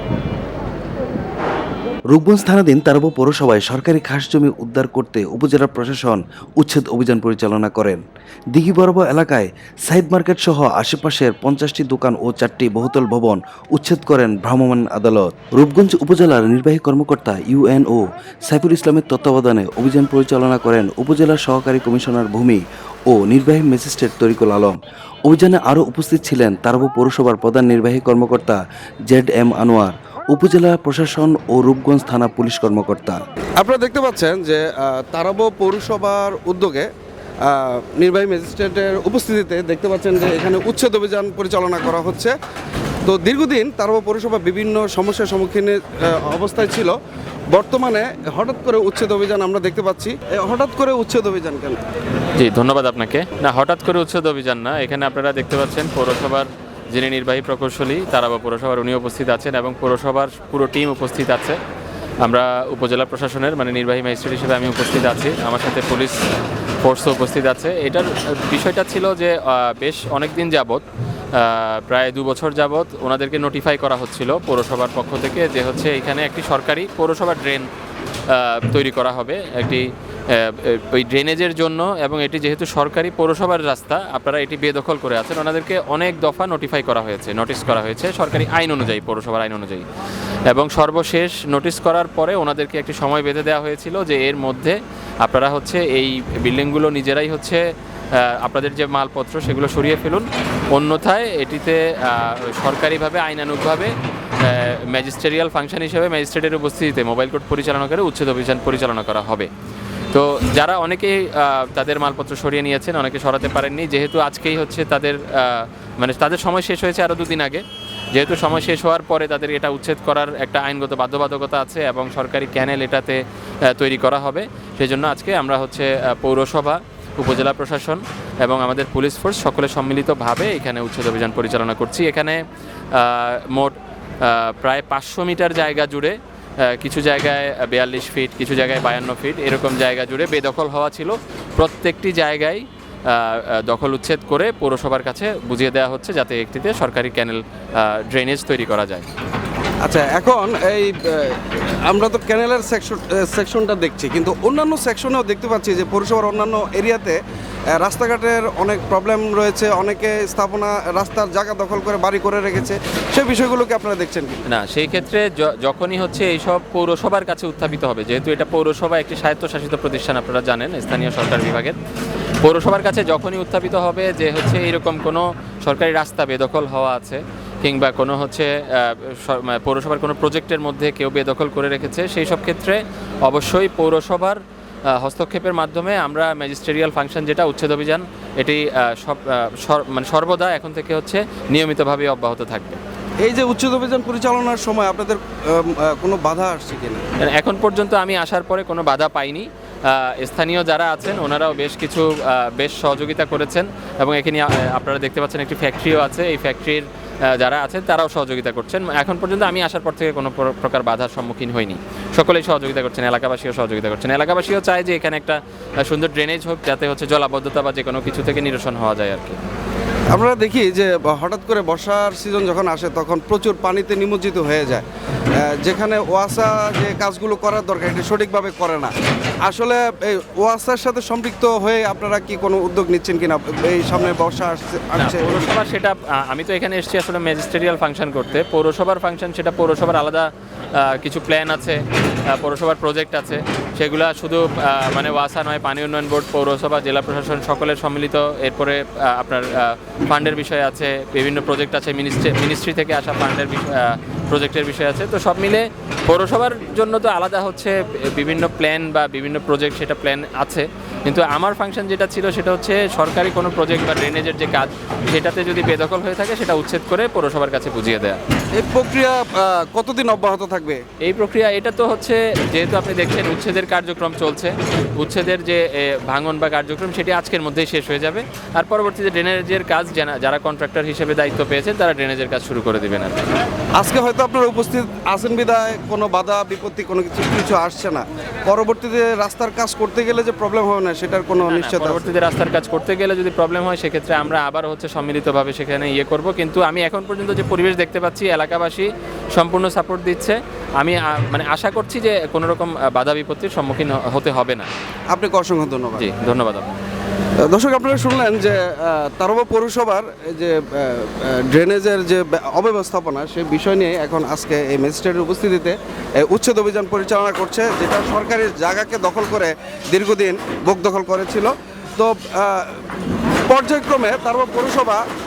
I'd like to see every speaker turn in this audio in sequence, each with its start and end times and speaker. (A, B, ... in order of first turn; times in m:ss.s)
0:02.1-0:33.2 A
0:33.6-0:36.9 B
0:37.5-0:42.3 B
0:43.1-0:46.9 B
0:47.5-0:51.8 B
0:52.4-1:01.6 C
1:02.2-1:06.2 C
1:06.8-1:17.7 C
1:18.3-1:29.8 C
1:30.5-1:49.5 C
1:50.1-2:12.4 C
2:12.9-2:29.1 C
2:29.8-2:37.2 B
2:37.8-2:44.4 B
2:44.5-2:51.8 C
2:52.4-3:04.4 C
3:04.9-3:12.8 C
3:13.2-3:17.0 B
3:17.2-3:39.4 C
3:40.1-3:44.8 B
3:45.4-3:48.9 B
3:49.4-3:55.5 B
3:55.0-4:28.2 C
4:28.6-4:30.8 B
4:31.0-4:43.2 C
4:43.8-4:52.1 B
4:51.4-5:04.7 C
5:05.1-5:06.1 B
5:06.0-5:06.8 C
5:07.5-5:22.8 B
5:23.5-5:25.0 B